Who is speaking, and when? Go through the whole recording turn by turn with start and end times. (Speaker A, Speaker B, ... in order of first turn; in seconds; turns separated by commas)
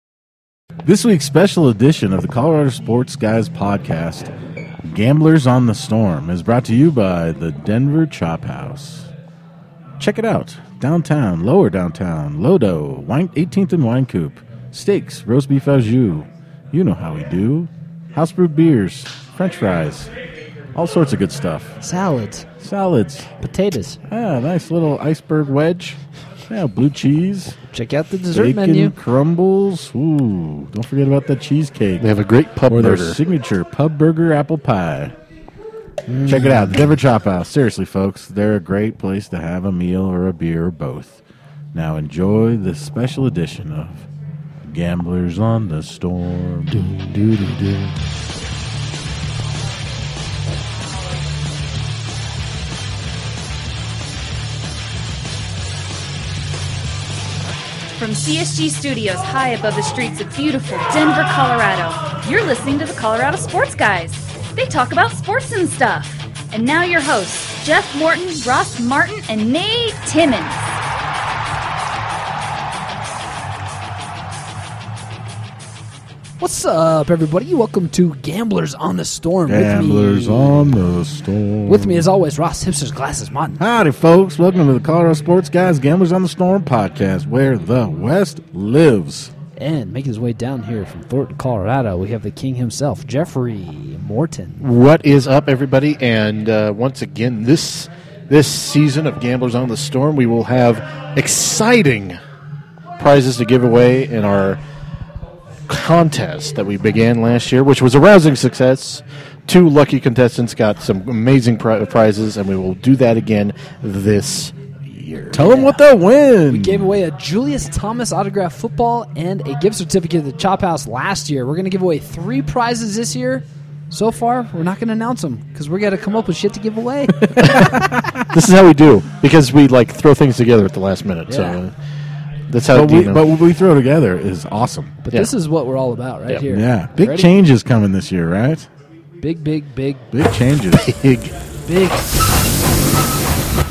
Speaker A: 0.8-4.3, Speaker A: 4.8-9.1, Speaker A: 10.0-20.1, Speaker A: 20.7-21.8, Speaker B: 21.8-22.4, Speaker A: 22.6-23.3, Speaker B: 23.4-24.0, Speaker A: 24.1-26.0, Speaker A: 26.5-27.5, Speaker B: 27.7-28.9, Speaker A: 28.3-32.0, Speaker C: 32.0-33.2, Speaker A: 32.7-35.1, Speaker C: 36.2-36.8, Speaker A: 36.2-41.2, Speaker A: 41.7-44.1, Speaker A: 44.6-46.9, Speaker C: 46.7-47.9, Speaker D: 57.9-70.6, Speaker B: 76.4-80.8, Speaker A: 79.5-82.0, Speaker B: 81.6-83.6, Speaker A: 83.6-89.3, Speaker B: 89.6-94.6, Speaker C: 94.6-102.2, Speaker C: 103.0-104.6, Speaker C: 105.7-115.6, Speaker A: 115.3-117.0, Speaker B: 115.3-115.8, Speaker B: 116.5-127.9, Speaker A: 127.7-128.2, Speaker C: 128.3-131.7, Speaker B: 131.3-131.6, Speaker C: 132.5-133.3, Speaker A: 132.7-135.0, Speaker B: 135.0-137.3, Speaker A: 136.5-138.7, Speaker B: 139.2-140.1, Speaker A: 140.1-140.9, Speaker C: 140.7-141.3, Speaker B: 141.6-142.1